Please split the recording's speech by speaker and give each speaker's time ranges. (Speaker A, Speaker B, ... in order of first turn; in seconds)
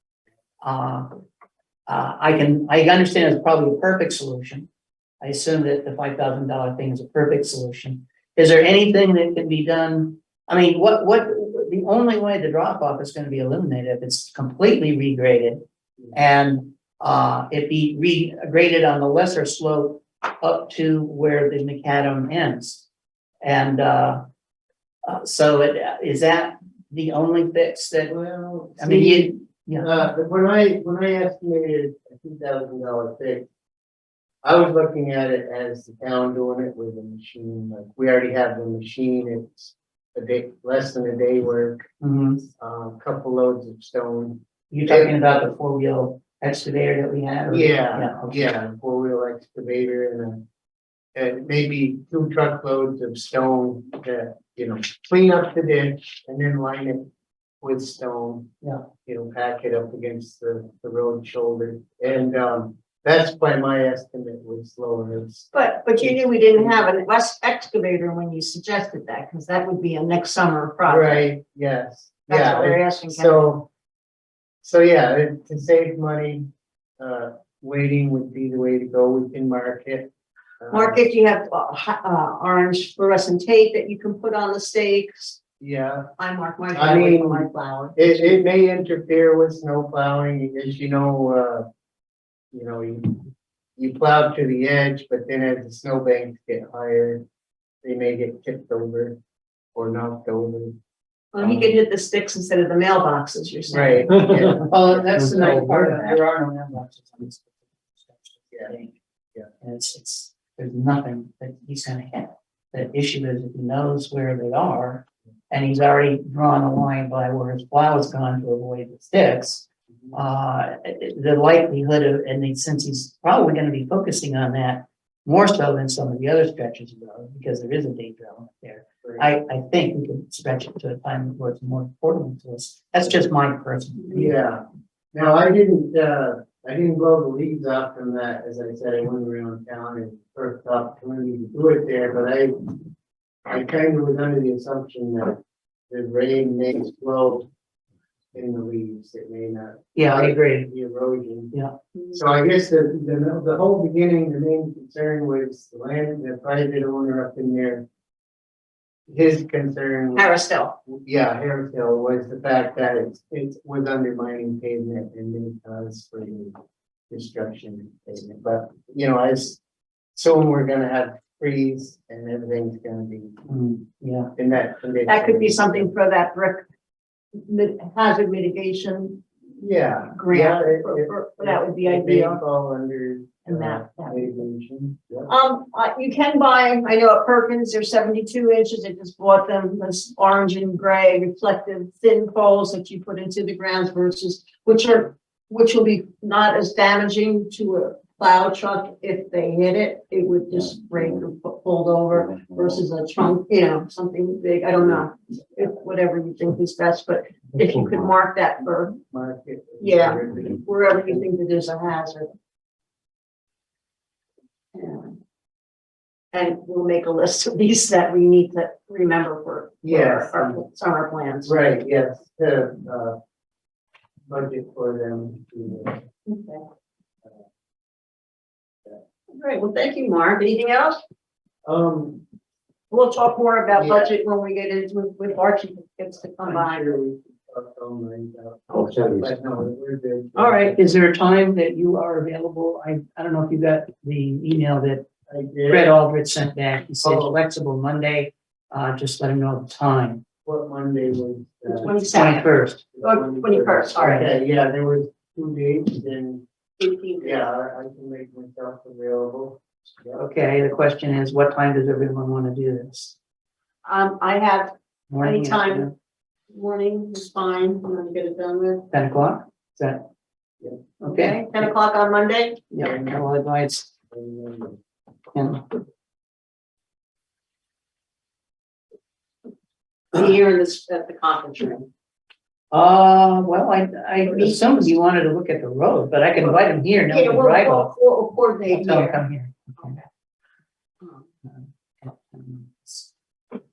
Speaker A: 0.6-1.2, 1.9-4.7, 5.2-22.9, 23.4-24.2, 25.1-28.1, 28.8-29.9, 42.0-42.4, 44.7-48.5, 104.7-108.9, 109.6-134.4, 150.0-150.7, 173.5-174.3, 240.7-245.1, 245.7-250.2, 252.1-252.8, 254.0-254.3, 260.2-263.1, 265.1-265.9, 268.9-270.1, 271.0-271.6, 272.7-273.9, 275.3-275.7, 282.7-287.9, 288.7-290.0, 291.4-293.1
Speaker B: 28.1-33.5, 34.4-41.8, 42.5-45.2, 47.5-50.4, 51.1-57.0, 57.6-58.5, 59.0-66.8, 70.8-73.7, 74.6-81.0, 85.6-86.1, 86.7-91.7, 92.5-93.2, 93.8-97.2, 97.8-99.2, 99.7-100.8, 101.4-101.7, 103.7-105.8, 134.1-142.5, 143.5-147.5, 148.3-151.5, 152.1-157.8, 159.1-160.3, 160.8-166.6, 167.1-169.6, 170.2-173.4, 174.4-175.9, 179.6-185.3, 209.1-210.6, 219.8-220.6, 221.4-223.2, 224.3-226.0, 231.7-232.2, 233.8-234.1, 236.4-241.0, 245.3-245.9, 247.0-247.4, 250.4-251.9, 252.9-256.4, 257.2-260.2, 272.8-273.2, 274.1-274.8
Speaker C: 65.5-71.2, 72.3-73.4, 80.7-85.4, 86.2-88.4, 101.3-104.2, 160.2-160.8, 175.1-176.7, 177.3-179.2, 180.2-182.4, 183.5-184.4, 185.3-209.0, 209.8-212.3, 214.7-215.1, 216.3-221.5, 226.3-226.7, 229.3-231.0, 232.9-237.0, 240.4-240.7, 251.7-252.5, 253.0-254.2, 256.8-257.5, 263.9-265.9, 266.5-268.9, 271.1-272.6, 280.1-281.9, 284.2-284.6, 286.4-289.2